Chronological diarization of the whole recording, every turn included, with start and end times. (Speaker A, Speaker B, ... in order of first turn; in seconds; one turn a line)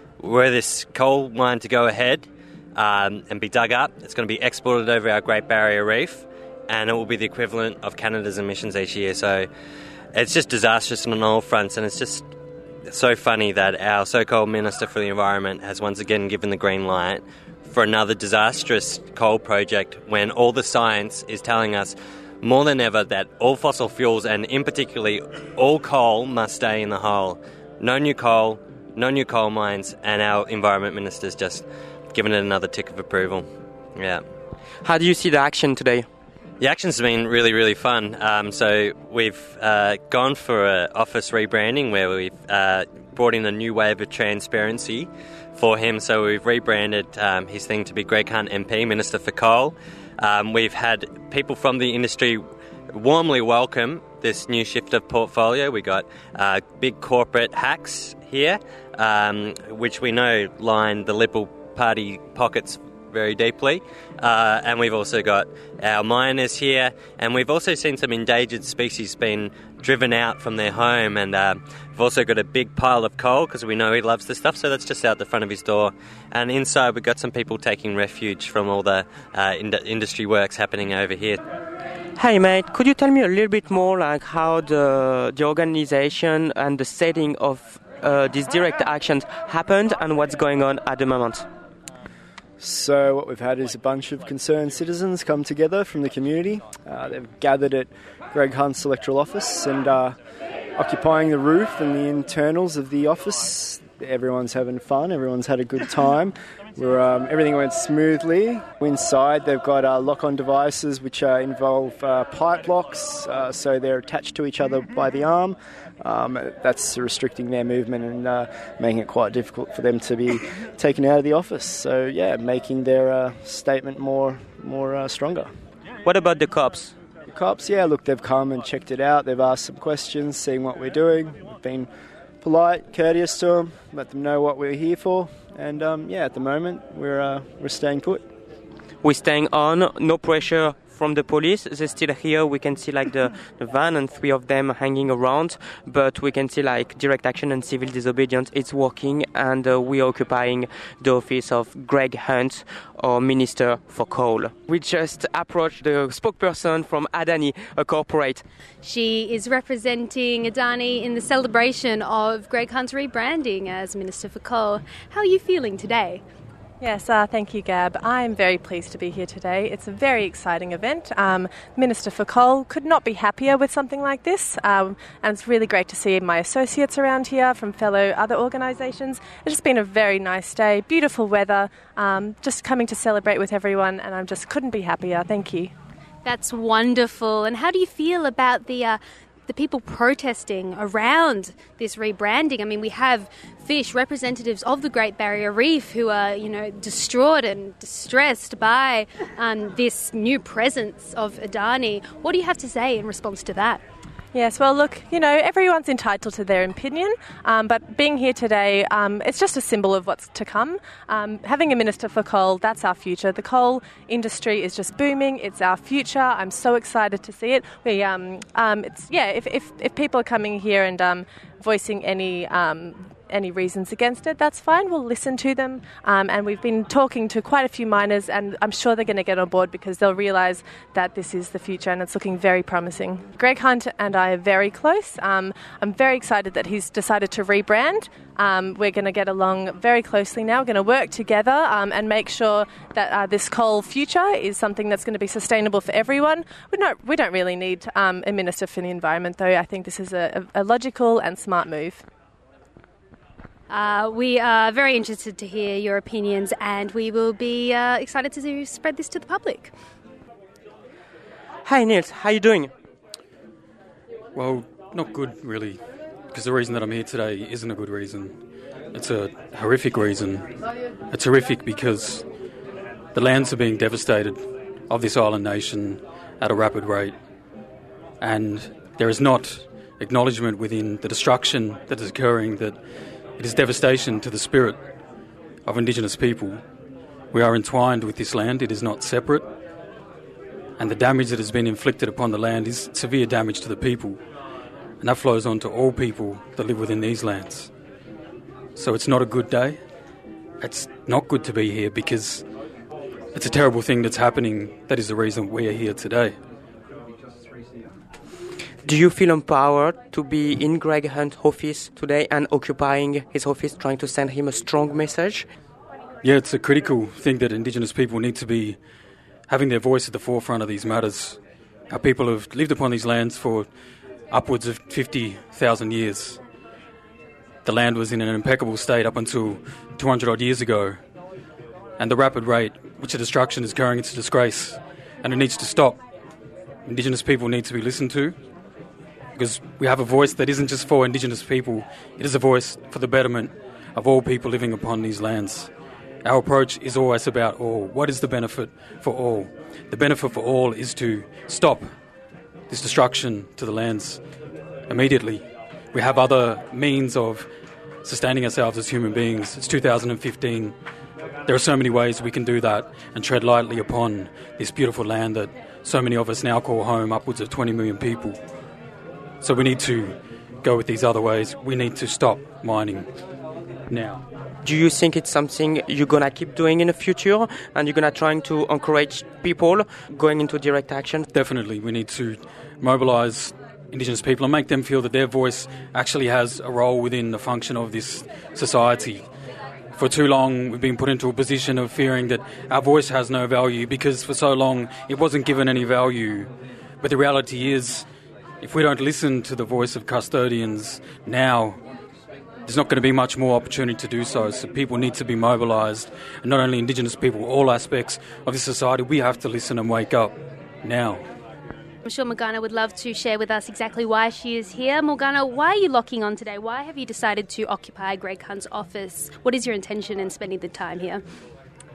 Speaker A: 0.2-9.5
Speaker A: 10.2-12.3
Speaker A: 12.9-33.5
Speaker A: 34.0-34.2
Speaker B: 34.8-36.1
Speaker A: 36.6-81.4
Speaker B: 82.2-91.5
Speaker C: 92.6-100.2
Speaker C: 100.8-125.5
Speaker B: 126.0-126.9
Speaker C: 127.3-131.9
Speaker C: 132.4-138.3
Speaker B: 139.0-158.4
Speaker D: 158.8-166.2
Speaker E: 166.8-185.7
Speaker D: 186.2-203.8
Speaker E: 204.3-252.1
Speaker D: 253.7-259.7
Speaker B: 261.6-262.7
Speaker F: 264.4-265.8
Speaker F: 266.3-268.4
Speaker F: 268.9-270.5
Speaker F: 271.1-272.2
Speaker F: 273.1-277.1
Speaker F: 278.2-282.8
Speaker F: 283.4-284.8
Speaker F: 285.6-286.6
Speaker F: 287.3-289.5
Speaker F: 290.8-294.2
Speaker F: 295.0-297.7
Speaker F: 298.8-299.8
Speaker F: 300.6-302.4
Speaker F: 303.3-306.4
Speaker B: 308.8-315.5
Speaker F: 316.2-318.8
Speaker F: 319.5-321.4
Speaker F: 321.9-323.7
Speaker F: 324.3-326.4
Speaker F: 327.6-331.0
Speaker F: 332.0-336.0
Speaker F: 336.9-338.4
Speaker F: 339.4-345.7
Speaker F: 346.2-351.9
Speaker F: 352.7-354.2
Speaker F: 354.9-357.5
Speaker F: 358.0-360.7
Speaker F: 361.5-368.4
Speaker F: 369.4-373.1
Speaker F: 373.9-374.2
Speaker B: 374.6-381.3
Speaker F: 381.3-389.3
Speaker F: 390.0-398.1
Speaker F: 398.6-401.8
Speaker F: 402.6-411.2
Speaker D: 412.1-421.2